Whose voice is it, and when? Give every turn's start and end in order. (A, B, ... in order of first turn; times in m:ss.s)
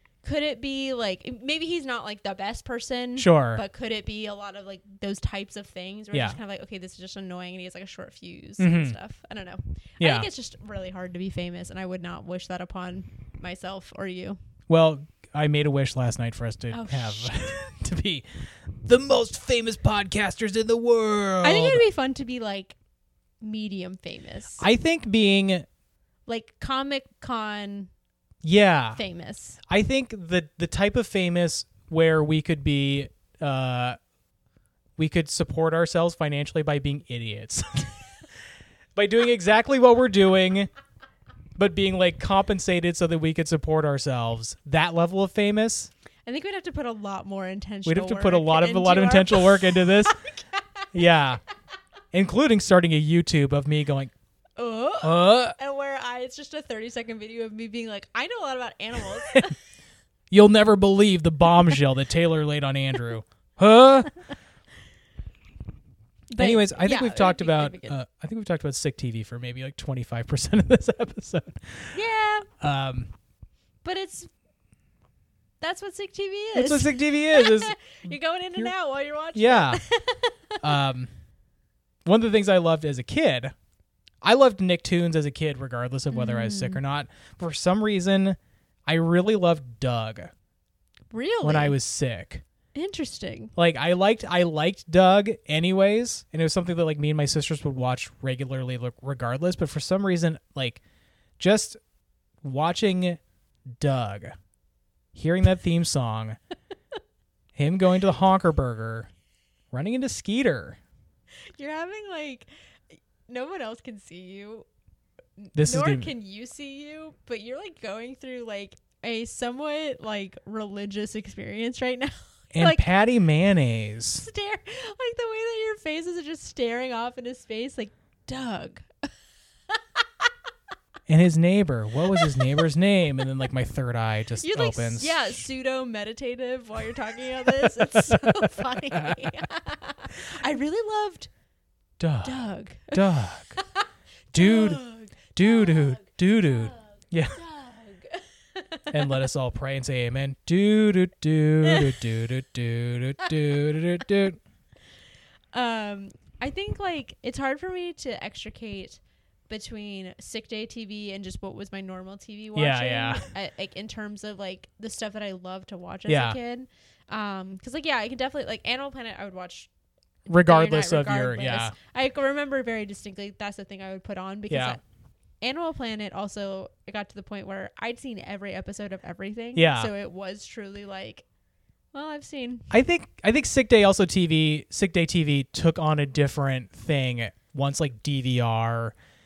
0:00.2-0:14.4 A
0:03.2-0:03.6 B
0:06.1-0:06.4 B
0:08.6-0:09.0 B
0:10.0-0:10.3 B
0:14.7-0:18.2 B
0:16.7-0:17.6 A
0:18.8-0:21.8 B
0:21.4-0:22.8 A
0:23.4-0:24.6 A
0:24.6-0:25.6 B
0:26.3-0:27.9 A
0:28.4-0:29.0 B
0:28.9-0:29.6 A
0:29.7-0:34.0 B
0:35.0-0:38.1 B
0:38.9-0:40.7 B
0:41.6-0:45.9 B
0:46.2-0:50.8 A
0:47.8-0:50.2 B
0:50.9-0:51.4 B
0:52.1-0:54.1 B
0:54.6-0:59.6 A
0:55.0-0:55.6 B
1:00.3-1:04.1 B
1:06.3-1:08.0 A
1:06.4-1:11.9 B
1:11.9-1:12.5 A
1:12.6-1:13.1 B
1:13.8-1:14.3 A
1:15.6-1:20.6 A
1:16.5-1:18.7 B
1:19.3-1:19.8 B
1:20.6-1:21.1 B
1:22.0-1:23.5 B
1:24.2-1:30.3 B
1:26.1-1:26.8 A
1:31.1-1:31.8 A
1:31.4-1:32.4 B
1:32.7-1:33.5 A
1:33.6-1:40.8 B
1:41.4-1:41.8 B
1:42.4-1:43.2 B
1:43.8-1:44.3 B
1:45.1-1:46.4 B
1:47.5-1:49.1 B
1:49.7-1:50.8 B
1:51.5-1:54.7 A
1:55.4-2:02.9 A
1:55.5-1:56.1 B
2:02.5-2:04.2 B
2:04.1-2:09.1 A
2:09.7-2:10.0 A
2:11.1-2:15.4 B
2:12.1-2:12.6 A
2:14.4-2:21.3 A
2:17.4-2:19.5 B
2:22.0-2:23.6 B
2:22.2-2:23.0 A
2:23.6-2:29.2 A
2:24.3-2:27.4 B
2:28.9-2:34.4 B
2:31.6-2:32.0 A
2:35.5-2:49.7 A
2:42.6-2:43.2 B
2:46.1-2:46.4 B
2:50.2-2:54.8 A
2:50.3-2:51.7 B
2:54.5-2:54.8 B
2:55.4-3:01.2 A
2:59.5-2:59.9 B
3:01.9-3:02.7 A
3:02.7-3:08.9 B